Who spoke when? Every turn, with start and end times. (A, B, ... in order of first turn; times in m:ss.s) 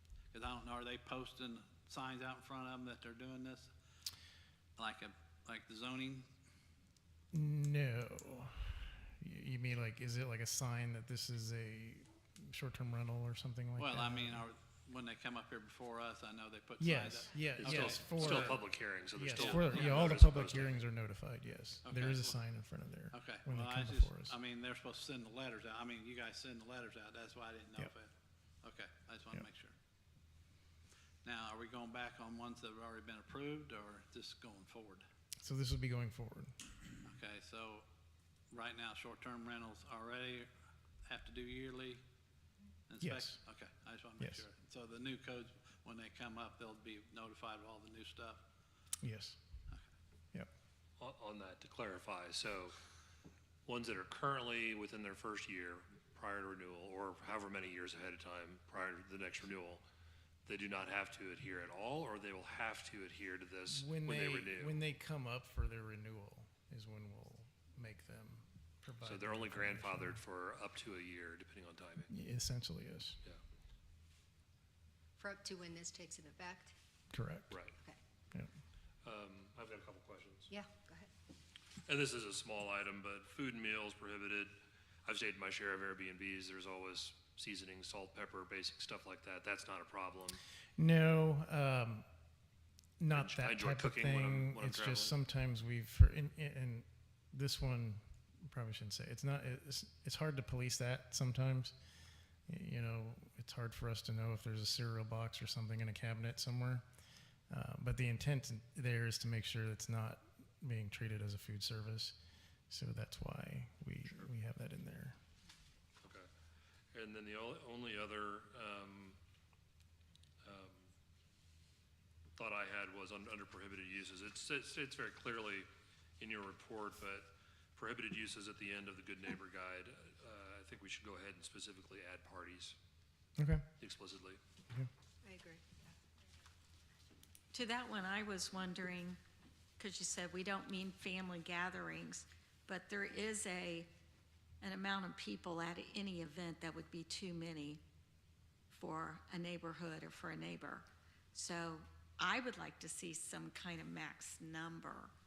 0:00.3-0:03.7 A
0:04.8-0:06.3 A
0:07.3-0:14.4 B
0:13.8-0:18.6 A
0:16.8-0:18.6 B
0:17.6-0:20.8 C
0:19.1-0:24.4 B
0:19.3-0:20.2 A
0:21.8-0:22.4 A
0:23.1-0:28.1 A
0:28.6-0:29.8 A
0:31.2-0:35.0 A
0:35.4-0:36.6 B
0:37.0-0:37.9 A
0:38.5-0:40.5 A
0:41.0-0:42.0 A
0:42.9-0:48.4 A
0:43.0-0:43.4 B
0:49.0-0:49.4 B
0:51.0-0:52.8 C
0:53.7-0:59.8 C
1:00.5-1:04.8 C
1:03.7-1:10.2 B
1:09.0-1:12.1 C
1:12.1-1:13.2 B
1:15.2-1:16.7 D
1:17.1-1:17.6 B
1:19.0-1:20.5 C
1:20.5-1:21.1 D
1:21.9-1:30.4 C
1:30.8-1:32.1 B
1:33.0-1:41.8 B
1:33.1-1:35.2 C
1:42.5-1:46.8 B
1:47.5-1:52.2 B
1:52.7-1:55.2 B
1:56.0-1:56.3 C
1:56.9-1:59.2 C
2:00.4-2:00.8 C
2:02.4-2:05.7 C
2:06.2-2:12.8 C
2:13.4-2:13.7 B
2:13.8-2:14.4 C
2:15.2-2:15.9 D
2:17.5-2:19.2 E
2:19.8-2:23.9 E
2:24.6-2:27.8 E
2:28.7-2:35.1 E